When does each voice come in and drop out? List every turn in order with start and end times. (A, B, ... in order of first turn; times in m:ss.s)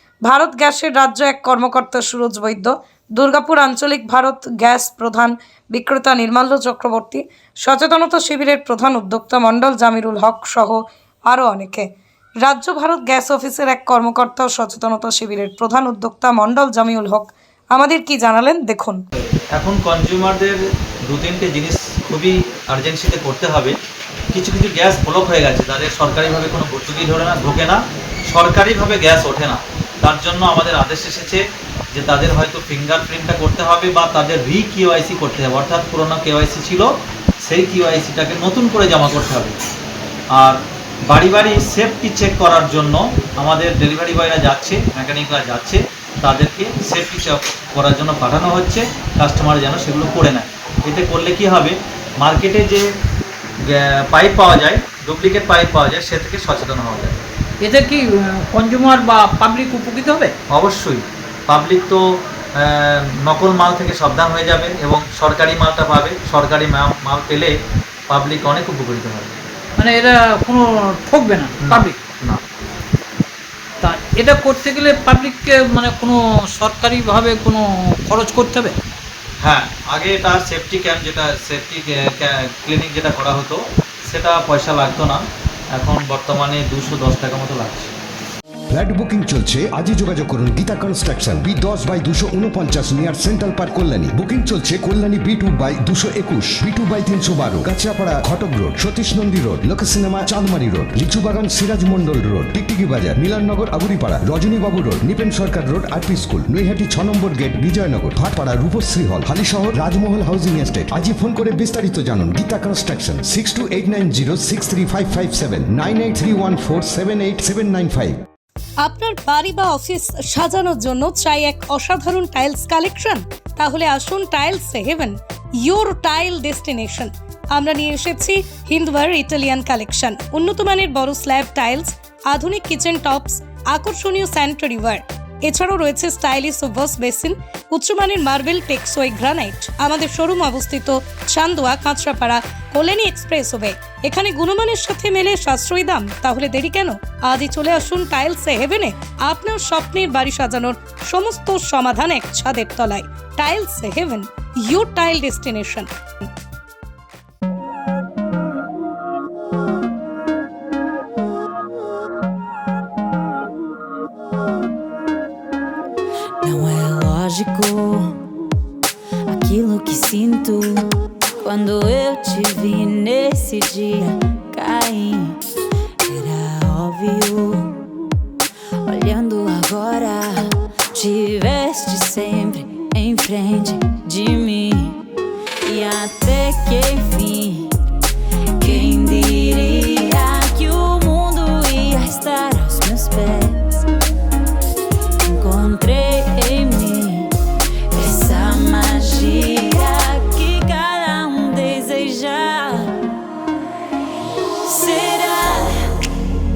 0:00.2-0:11.9 A
0:12.4-0:19.0 A
0:19.5-0:20.6 B
0:21.1-0:23.8 B
0:24.3-0:31.4 B
0:31.9-0:36.9 B
0:37.4-0:39.6 B
0:40.4-0:52.8 B
0:53.6-0:57.2 B
0:57.6-1:00.3 C
1:00.5-1:07.5 B
1:08.1-1:09.4 B
1:09.8-1:12.0 C
1:11.6-1:12.4 B
1:13.8-1:18.7 C
1:19.4-1:27.9 B
1:28.7-1:58.2 D
1:58.8-2:35.9 A
2:46.4-2:48.2 E
2:49.2-2:55.4 E
2:56.0-2:57.8 E
2:58.8-3:05.0 E
3:05.6-3:07.7 E
3:08.6-3:13.8 E
3:15.2-3:17.3 E
3:17.9-3:22.9 E
3:24.6-3:26.0 E